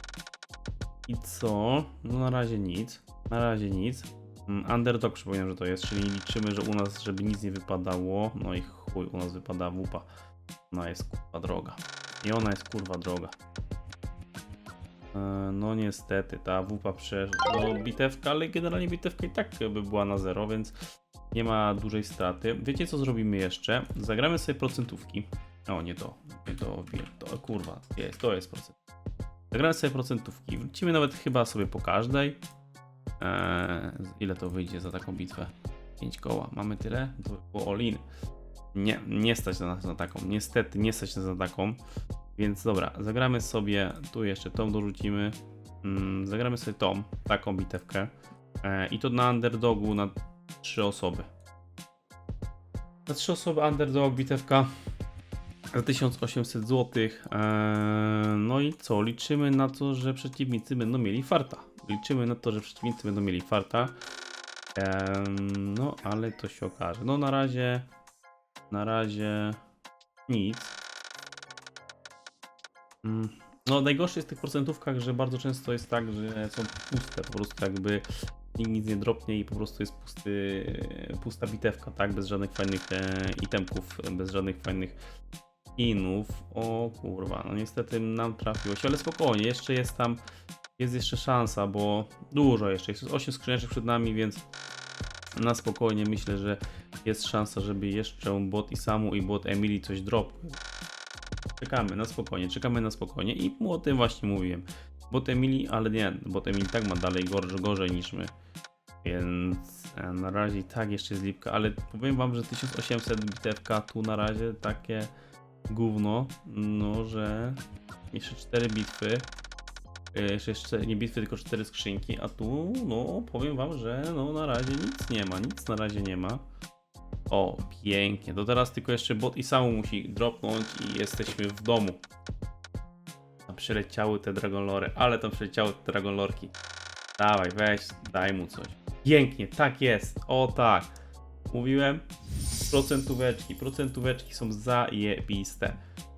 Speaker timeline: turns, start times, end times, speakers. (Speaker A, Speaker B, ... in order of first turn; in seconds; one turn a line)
Speaker A: 1.1-10.1
Speaker A: 10.7-13.3
Speaker A: 15.1-20.8
Speaker A: 21.3-28.8
Speaker A: 29.5-32.4
Speaker A: 33.2-38.0
Speaker A: 38.7-41.8
Speaker A: 42.4-51.3
Speaker A: 53.1-54.7
Speaker A: 55.7-63.9
Speaker A: 64.8-67.8
Speaker A: 68.7-69.6
Speaker A: 70.3-70.8
Speaker A: 73.0-85.0
Speaker A: 85.8-90.2
Speaker A: 90.8-94.4
Speaker A: 95.3-100.6
Speaker A: 101.6-108.3
Speaker A: 109.0-115.1
Speaker A: 115.7-117.6
Speaker A: 118.1-119.3
Speaker A: 120.1-126.4
Speaker A: 127.3-132.0
Speaker A: 133.5-136.5
Speaker A: 137.2-140.9
Speaker A: 141.5-142.0
Speaker A: 142.7-145.8